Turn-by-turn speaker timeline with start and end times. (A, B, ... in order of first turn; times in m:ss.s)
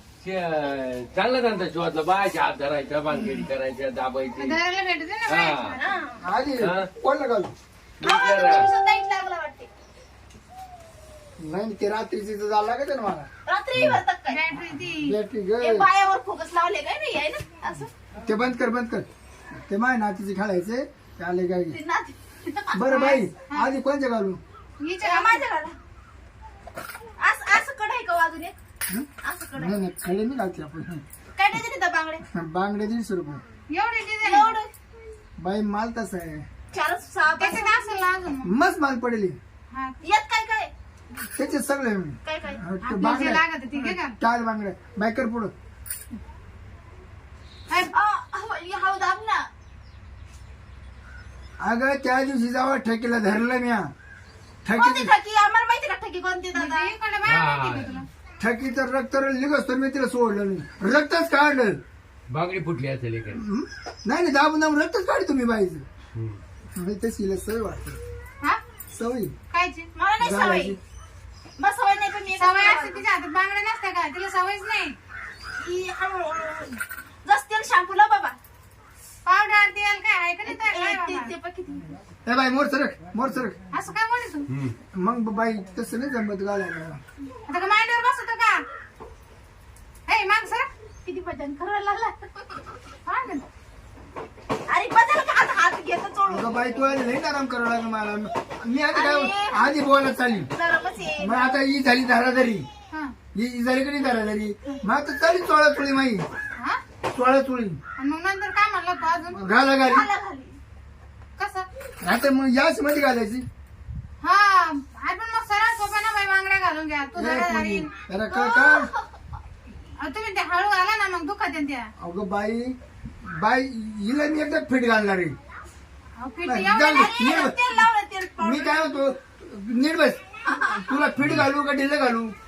0:00.2-0:04.6 A
0:04.4-0:05.8 B
0:05.3-0:05.8 A
0:05.7-0:06.2 C
0:06.2-0:07.5 D
0:06.6-0:06.9 A
0:08.0-0:08.7 A
0:08.0-0:09.7 C
0:11.4-0:13.3 D
0:13.5-0:14.4 C
0:13.7-0:14.0 A
0:14.3-0:15.2 B
0:14.9-0:15.9 D
0:15.6-0:17.9 C
0:18.2-0:19.1 D
0:19.6-0:21.8 D
0:21.7-0:23.3 C
0:22.7-0:24.4 D
0:24.8-0:25.4 B
0:25.0-0:25.8 C
0:27.2-0:28.6 C
0:28.9-0:31.0 D
0:29.2-0:29.8 C
0:31.4-0:32.2 C
0:32.3-0:33.4 D
0:33.7-0:34.5 B
0:34.2-0:34.7 C
0:35.4-0:36.5 D
0:36.7-0:37.9 C
0:37.4-0:38.5 B
0:38.4-0:39.4 D
0:39.7-0:40.0 B
0:40.0-0:40.7 C
0:41.2-0:45.5 D
0:42.2-0:42.6 C
0:42.8-0:44.2 B
0:47.9-0:49.5 C
0:51.6-0:53.9 D
0:54.6-0:55.1 D
0:54.8-0:56.9 C
0:56.6-0:58.1 B
0:57.2-0:57.9 A
0:58.4-1:01.8 D
1:02.3-1:03.4 A
1:03.3-1:05.8 D
1:06.2-1:06.4 A
1:06.8-1:08.0 D
1:08.9-1:09.3 D
1:09.5-1:09.9 B
1:10.0-1:10.8 C
1:10.2-1:10.8 D
1:11.6-1:13.0 C
1:12.4-1:15.0 B
1:15.6-1:18.4 C
1:19.2-1:21.3 B
1:20.5-1:22.0 C
1:22.3-1:23.6 D
1:23.7-1:24.5 B
1:24.5-1:24.8 A
1:24.9-1:27.0 D
1:27.5-1:28.6 B
1:30.1-1:30.7 B
1:31.0-1:32.8 C
1:33.1-1:33.4 B
1:34.7-1:36.6 C
1:36.3-1:40.5 D
1:38.9-1:39.8 C
1:40.5-1:41.6 C
1:41.2-1:42.7 D
1:43.3-1:46.3 D
1:47.0-1:47.8 D
1:48.0-1:49.5 B
1:49.3-1:50.1 D
1:49.9-1:50.6 C
1:51.4-1:51.7 B
1:52.0-1:53.5 D
1:54.2-1:57.9 B
1:57.2-1:58.9 D
1:58.3-1:59.2 C
2:00.0-2:01.9 B
2:02.0-2:05.4 D
2:06.2-2:07.1 B
2:06.5-2:07.9 D
2:06.8-2:08.9 C
2:08.4-2:12.3 D
2:10.5-2:11.1 C
2:11.2-2:11.5 A